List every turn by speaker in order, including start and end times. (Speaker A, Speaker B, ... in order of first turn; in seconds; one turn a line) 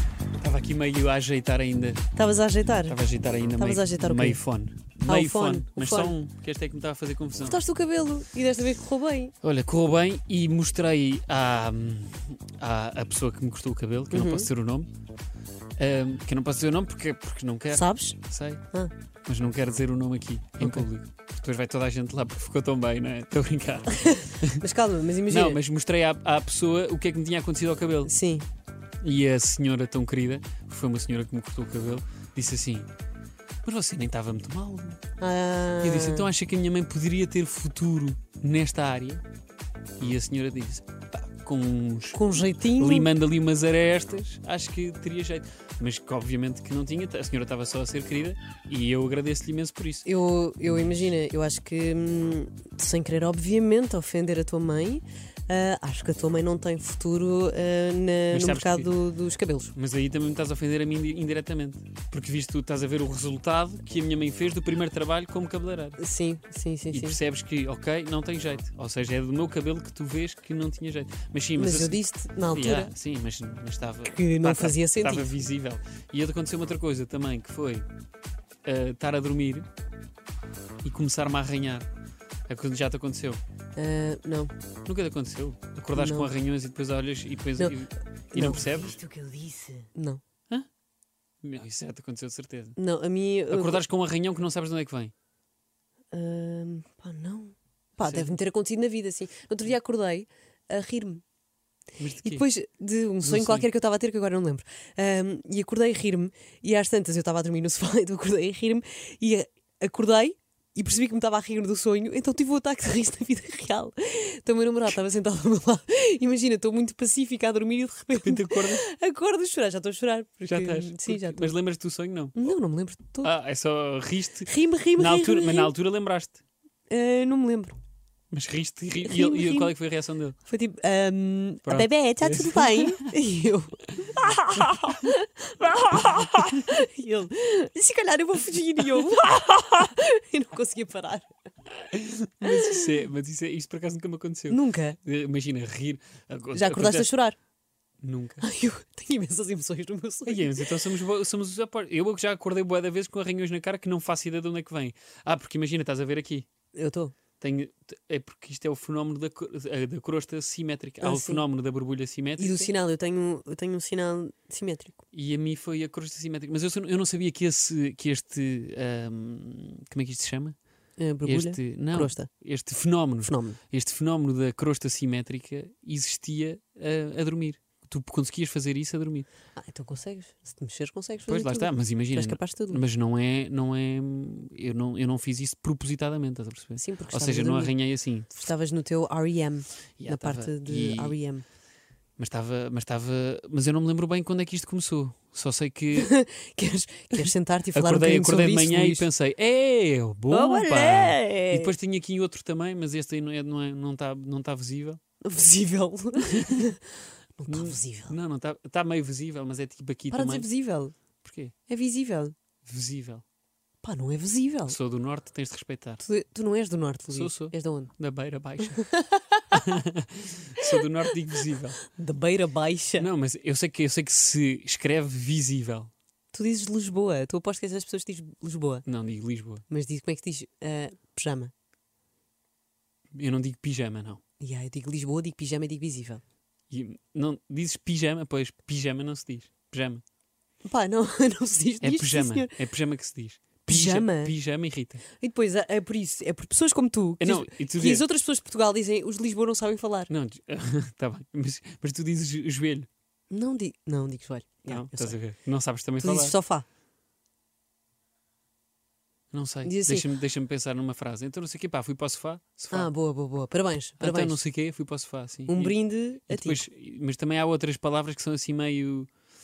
Speaker A: 0.4-2.0
Speaker B: 2.1-3.0
Speaker A: 2.9-7.6
Speaker B: 3.6-4.4
Speaker B: 5.0-6.2
Speaker B: 7.5-9.3
Speaker A: 9.4-14.9
Speaker B: 14.1-14.5
Speaker A: 15.8-18.6
Speaker B: 17.7-18.2
Speaker A: 19.2-24.6
Speaker B: 20.6-20.9
Speaker B: 23.9-25.6
Speaker A: 25.3-28.1
Speaker B: 28.0-28.4
Speaker A: 29.0-32.9
Speaker A: 33.6-35.0
Speaker B: 35.2-36.3
Speaker A: 35.8-39.2
Speaker A: 40.0-50.0
Speaker B: 42.1-43.1
Speaker B: 50.0-59.7
Speaker A: 58.3-58.9
Speaker A: 59.7-66.0
Speaker B: 66.0-67.2
Speaker A: 66.9-77.8
Speaker B: 71.5-72.9
Speaker B: 74.1-75.3
Speaker A: 78.6-79.7
Speaker A: 80.8-81.9
Speaker A: 82.5-83.4
Speaker B: 83.8-84.5
Speaker A: 84.8-89.0
Speaker B: 85.9-86.3
Speaker B: 88.3-90.2
Speaker A: 91.4-92.8
Speaker B: 92.8-93.8
Speaker A: 93.5-95.1
Speaker B: 96.1-101.2
Speaker A: 98.0-98.3
Speaker A: 102.0-102.4
Speaker B: 102.2-121.5
Speaker A: 103.2-103.7
Speaker A: 118.1-118.8
Speaker A: 120.5-122.5
Speaker B: 122.3-123.3
Speaker A: 123.2-126.4
Speaker B: 124.5-125.7
Speaker B: 126.9-127.8
Speaker A: 128.3-130.4
Speaker B: 129.0-129.7
Speaker B: 130.5-141.3
Speaker A: 131.6-133.1
Speaker A: 136.0-136.2
Speaker A: 141.8-147.1
Speaker B: 142.4-142.9
Speaker B: 144.5-145.0
Speaker B: 146.5-147.4
Speaker A: 148.0-148.4
Speaker B: 148.4-150.6
Speaker A: 150.2-156.4
Speaker B: 156.7-157.1
Speaker A: 157.4-162.7
Speaker B: 161.0-161.4
Speaker B: 162.4-165.0
Speaker A: 165.1-170.5
Speaker B: 171.0-172.3
Speaker A: 171.2-179.3
Speaker B: 173.2-173.6
Speaker B: 179.5-182.8
Speaker A: 181.3-188.5
Speaker B: 186.8-187.7
Speaker B: 188.4-191.4
Speaker A: 190.0-191.2
Speaker A: 192.2-196.1
Speaker B: 195.9-199.1
Speaker A: 197.1-205.0
Speaker B: 200.3-201.7
Speaker B: 205.2-208.2
Speaker A: 206.2-206.7
Speaker A: 207.5-210.5
Speaker B: 210.1-210.9
Speaker A: 211.2-211.5
Speaker B: 211.7-212.3
Speaker A: 212.7-213.2
Speaker B: 213.8-214.7
Speaker A: 214.7-216.0
Speaker B: 216.0-217.9
Speaker A: 217.1-218.8
Speaker B: 218.8-219.4
Speaker A: 219.5-221.8
Speaker B: 220.6-223.1
Speaker A: 223.0-225.9
Speaker B: 226.3-228.8
Speaker A: 228.8-229.6
Speaker B: 229.7-231.5
Speaker A: 233.1-234.2
Speaker B: 234.4-236.2
Speaker A: 236.7-240.0
Speaker B: 240.6-242.5
Speaker A: 241.8-245.0
Speaker B: 243.7-244.3
Speaker B: 245.2-250.1
Speaker A: 247.2-248.0
Speaker A: 250.1-252.9
Speaker B: 253.3-255.2
Speaker A: 254.7-256.4
Speaker B: 256.0-256.6
Speaker A: 259.3-262.9
Speaker B: 259.6-260.1
Speaker B: 262.7-264.4
Speaker A: 264.0-269.1
Speaker B: 265.5-266.6